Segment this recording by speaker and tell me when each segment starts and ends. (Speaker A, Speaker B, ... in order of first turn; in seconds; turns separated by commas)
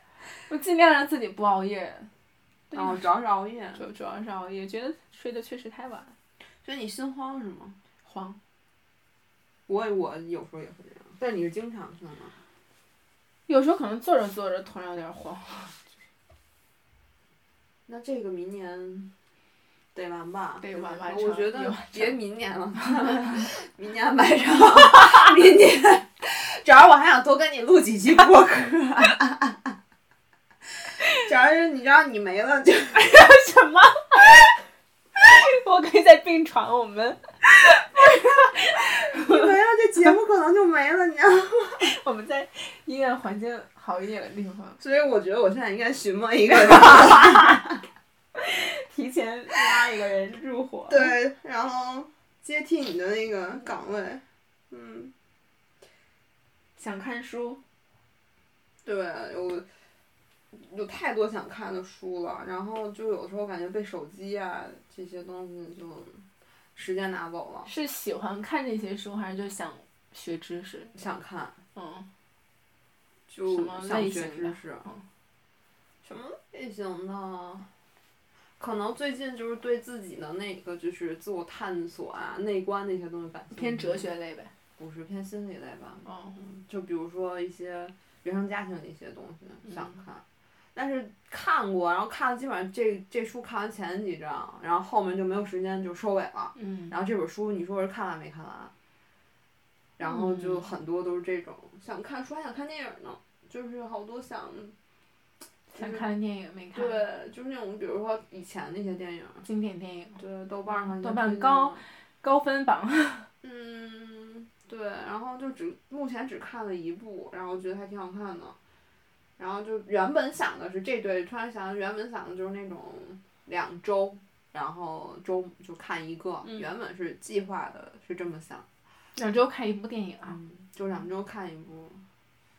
Speaker A: 0.5-2.1, Speaker A: 2.7-3.0, Speaker B: 2.7-3.8, Speaker A: 3.7-6.1, Speaker B: 6.6-7.8, Speaker A: 8.0-8.4, Speaker B: 9.7-12.4, Speaker A: 13.5-15.9, Speaker B: 17.9-19.1, Speaker B: 19.9-29.7, Speaker A: 20.6-22.2, Speaker A: 22.8-23.4, Speaker B: 31.0-33.0, Speaker A: 32.9-34.5, Speaker A: 35.2-37.2, Speaker A: 37.9-39.5, Speaker B: 39.1-41.9, Speaker A: 41.8-44.8, Speaker B: 44.8-47.8, Speaker A: 47.0-47.4, Speaker A: 48.4-51.1, Speaker B: 50.9-55.1, Speaker A: 56.8-57.6, Speaker B: 58.8-59.7, Speaker B: 60.5-67.7, Speaker A: 67.7-70.9, Speaker B: 70.9-71.6, Speaker A: 71.7-72.1, Speaker B: 73.3-74.8, Speaker A: 73.5-75.0, Speaker B: 76.0-77.7, Speaker B: 78.6-84.1, Speaker A: 83.5-84.5, Speaker B: 84.8-90.2, Speaker A: 86.0-86.4, Speaker A: 89.7-90.0, Speaker B: 90.7-98.7, Speaker A: 96.5-96.9, Speaker B: 100.0-104.8, Speaker A: 100.0-100.7, Speaker A: 105.7-107.0, Speaker B: 105.7-106.1, Speaker B: 106.7-109.4, Speaker A: 109.4-113.3, Speaker B: 110.2-111.8, Speaker B: 113.4-118.6, Speaker B: 119.4-128.7, Speaker A: 129.1-130.4, Speaker B: 130.3-132.0